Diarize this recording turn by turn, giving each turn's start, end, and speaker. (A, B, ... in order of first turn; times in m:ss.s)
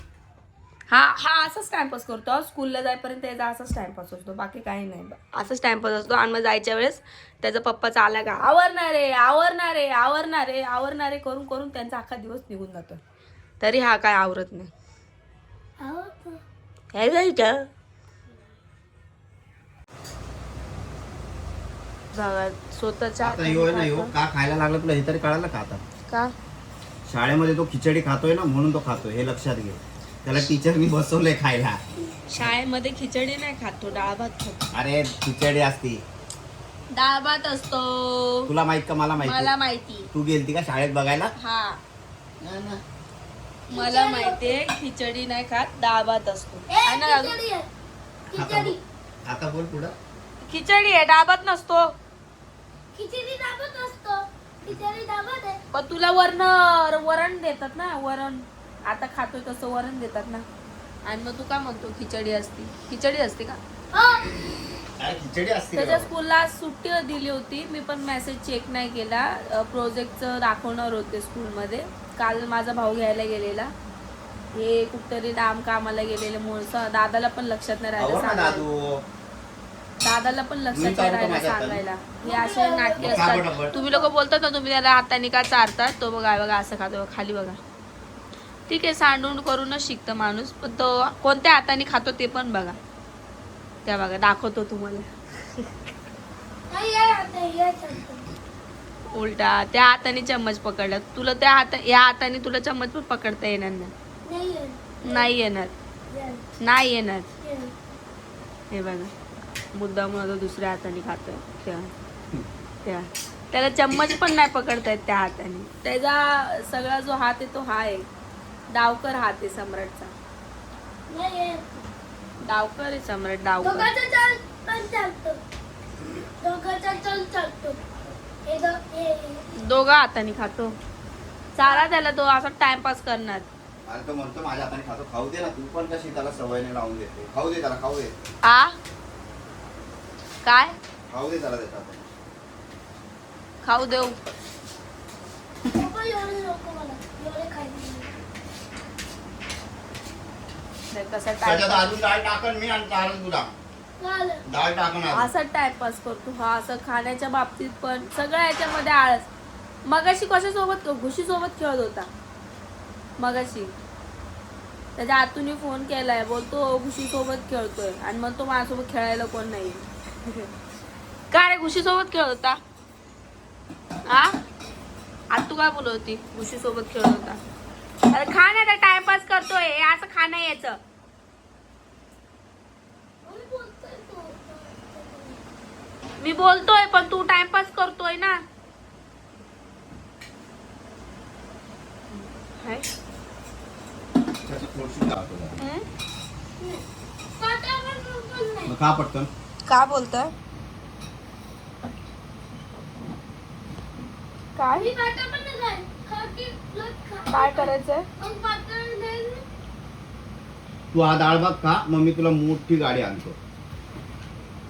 0:00.9-0:13.0 A
0:13.6-0:14.7 A
0:15.8-0:16.4 B
0:16.9-0:17.7 A
0:22.1-0:24.1 A
0:23.2-0:25.8 C
0:26.0-0:26.3 A
0:27.0-0:31.8 C
0:32.3-0:34.7 A
0:34.7-0:36.0 C
0:36.9-0:38.5 A
0:38.5-0:39.5 C
0:39.2-0:40.1 A
0:40.1-0:41.3 C
0:41.3-0:41.8 A
0:42.4-0:42.8 C
0:43.7-0:47.4 A
0:43.7-0:44.6 B
0:46.7-0:47.7 B
0:48.3-0:48.8 B
0:48.3-0:49.9 C
0:50.4-0:51.9 A
0:52.9-0:55.6 B
0:55.7-1:00.4 A
1:01.0-1:03.6 A
1:03.9-1:04.4 B
1:05.0-1:06.1 C
1:05.7-1:13.7 A
1:14.5-1:18.7 A
1:18.0-1:19.0 C
1:20.0-1:27.6 A
1:20.7-1:21.8 C
1:22.2-1:24.1 B
1:23.0-1:23.7 C
1:28.7-1:32.8 A
1:33.8-1:35.7 A
1:36.7-1:38.3 B
1:39.1-1:43.9 A
1:44.2-1:45.3 B
1:45.0-1:45.7 A
1:46.1-1:46.4 B
1:46.6-1:47.3 A
1:47.4-1:47.7 B
1:48.7-1:49.1 A
1:49.7-1:51.9 A
1:52.8-1:58.1 A
1:58.7-2:00.1 A
2:01.1-2:01.8 B
2:02.4-2:03.9 A
2:03.6-2:05.4 B
2:06.4-2:07.8 B
2:08.4-2:09.4 B
2:09.6-2:10.7 A
2:11.5-2:13.5 A
2:13.8-2:18.1 C
2:18.4-2:18.8 A
2:20.4-2:20.8 A
2:21.1-2:22.1 C
2:23.6-2:24.2 A
2:25.7-2:28.1 B
2:30.9-2:31.9 A
2:31.4-2:33.5 C
2:34.0-2:34.4 B
2:34.4-2:35.3 C
2:35.1-2:39.3 A
2:39.8-2:42.1 A
2:43.2-2:43.8 A
2:45.0-2:50.5 A
2:51.3-2:52.6 A
2:54.0-2:54.4 A
2:55.3-2:57.4 A
2:58.1-3:00.8 A
3:03.2-3:05.4 B
3:06.2-3:08.4 A
3:12.1-3:12.9 A
3:14.4-3:15.6 C
3:15.6-3:15.8 A
3:16.6-3:18.8 B
3:18.7-3:19.3 C
3:19.6-3:20.3 A
3:24.5-3:24.9 A
3:24.8-3:29.4 B
3:27.3-3:28.0 A
3:30.9-3:33.4 C